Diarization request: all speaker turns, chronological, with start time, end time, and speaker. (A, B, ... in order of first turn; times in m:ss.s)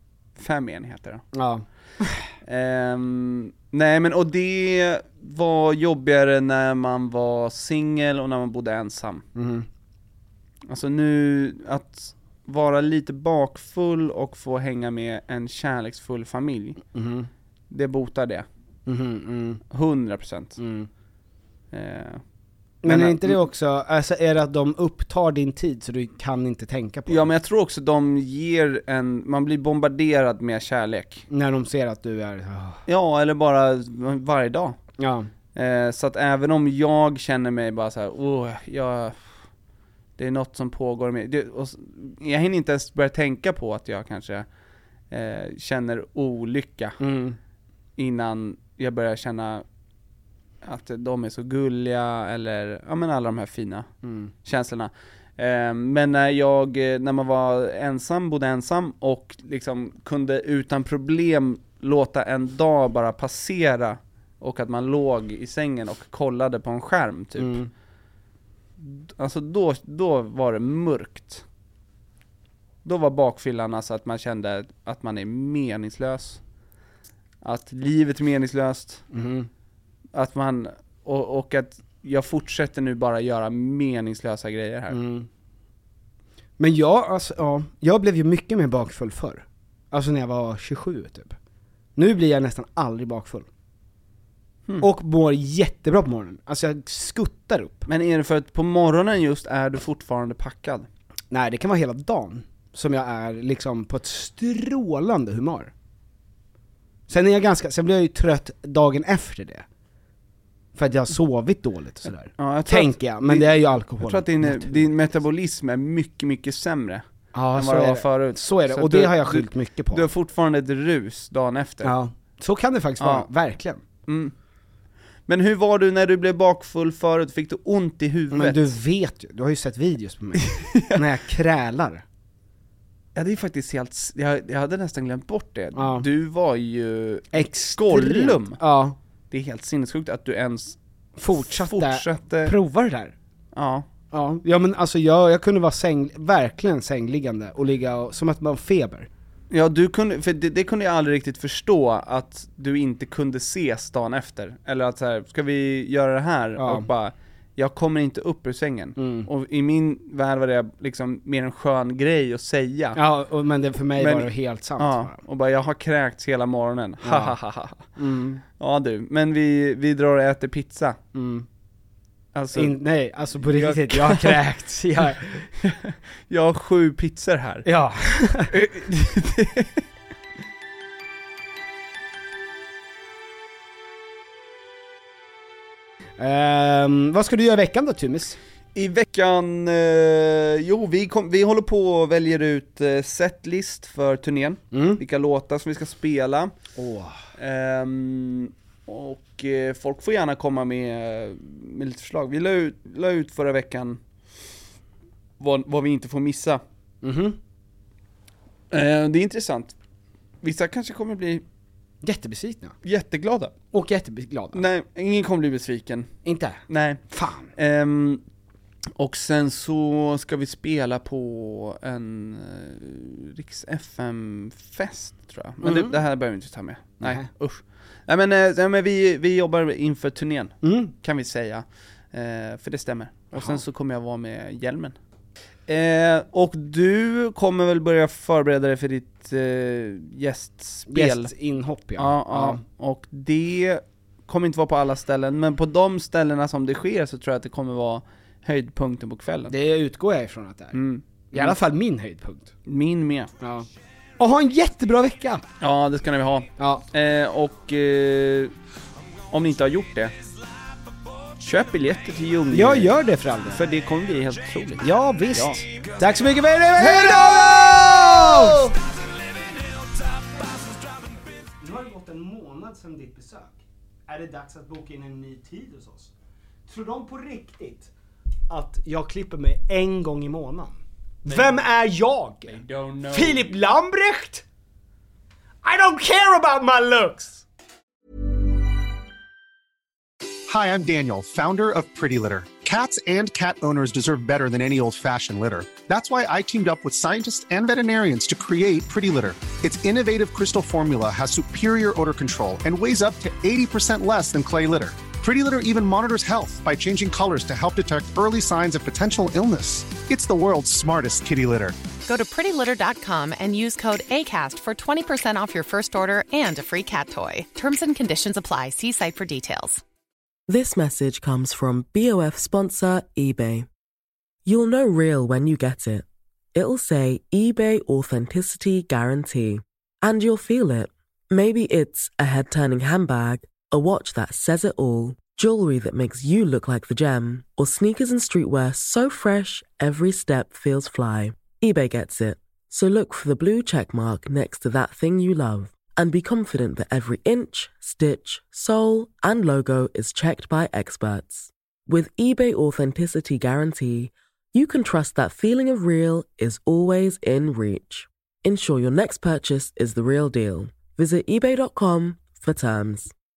0:00.4-0:01.2 A
0:01.3-0:02.3 B
0:02.4-0:09.3 A
0:09.4-0:09.7 B
0:10.7-0:16.8 A
0:16.9-0:17.3 B
0:17.7-0:18.5 A
0:18.9-0:19.6 B
0:19.7-0:20.6 A
0:20.6-0:20.9 B
0:21.7-0:22.2 A
0:22.8-0:27.3 B
0:22.8-0:23.4 A
0:27.1-0:31.2 A
0:31.3-0:32.8 B
0:32.9-0:34.8 A
0:35.0-0:35.3 B
0:35.6-0:39.2 A
0:40.2-0:44.5 A
0:45.1-0:47.0 A
0:47.0-0:47.4 B
0:48.0-0:49.6 A
0:50.6-0:53.9 A
0:54.0-0:54.3 B
0:54.4-1:07.6 A
1:07.4-1:07.7 B
1:08.8-1:11.4 A
1:12.8-1:16.4 A
1:17.4-1:19.0 A
1:19.1-1:19.5 B
1:20.2-1:25.0 A
1:24.9-1:25.3 B
1:26.6-1:31.4 B
1:32.0-1:33.5 B
1:34.8-1:37.9 B
1:37.9-1:40.9 A
1:41.3-1:45.7 B
1:47.1-1:49.6 B
1:50.8-1:54.8 B
1:52.4-2:02.0 A
1:57.3-2:00.1 B
2:01.8-2:03.8 B
2:03.0-2:03.3 A
2:04.1-2:04.3 A
2:05.3-2:08.8 A
2:08.3-2:12.0 B
2:10.4-2:11.0 A
2:13.2-2:18.6 A
2:15.8-2:16.1 B
2:17.3-2:19.0 B
2:19.3-2:20.8 A
2:21.2-2:23.2 B
2:21.3-2:22.6 A
2:23.5-2:23.9 A
2:24.1-2:29.1 B
2:29.5-2:43.0 A
2:36.6-2:36.9 B
2:39.0-2:39.3 B
2:43.0-2:45.2 B
2:44.0-2:47.9 A
2:47.0-2:47.4 B
2:48.0-2:48.4 B
2:48.6-2:51.0 A
2:51.1-2:51.5 B
2:52.3-2:52.8 A
2:52.5-2:55.5 B
2:53.4-2:54.4 A
2:55.6-2:57.7 A
2:57.6-2:58.5 B
2:58.5-2:59.8 A
3:06.2-3:08.4 B
3:08.8-3:16.5 A
3:14.7-3:15.0 B
3:16.8-3:17.2 B
3:17.4-3:24.0 A
3:25.4-3:26.6 A
3:27.0-3:27.4 B
3:28.7-3:29.7 A
3:30.4-3:31.4 A
3:32.0-3:32.8 B
3:32.8-3:33.5 A
3:33.7-3:34.6 B
3:34.5-3:36.1 A
3:36.2-3:37.5 B
3:36.7-3:37.0 A
3:37.6-3:38.2 A
3:39.0-3:55.0 A
3:45.6-3:46.0 B
3:47.0-3:47.3 B
3:50.6-3:50.9 B
3:53.4-3:53.6 B
3:55.7-4:01.3 A
4:00.9-4:02.6 B
4:02.0-4:09.6 A
4:09.5-4:10.8 B
4:10.7-4:11.6 A
4:11.3-4:12.5 B
4:12.7-4:13.3 A
4:13.4-4:13.7 B
4:14.2-4:15.4 B
4:15.6-4:18.5 A
4:16.6-4:16.8 B
4:19.3-4:20.1 A
4:21.4-4:22.9 A
4:22.5-4:23.6 B
4:23.5-4:25.6 A
4:24.8-4:28.7 B
4:30.1-4:36.1 B
4:36.7-4:37.9 B
4:38.5-4:42.6 B
4:41.3-4:41.6 A
4:42.5-4:43.5 A
4:43.1-4:44.4 B
4:45.6-4:47.4 B
4:50.5-5:11.8 C
5:12.1-5:19.8 D
5:20.5-5:23.7 E
5:24.5-6:03.1 E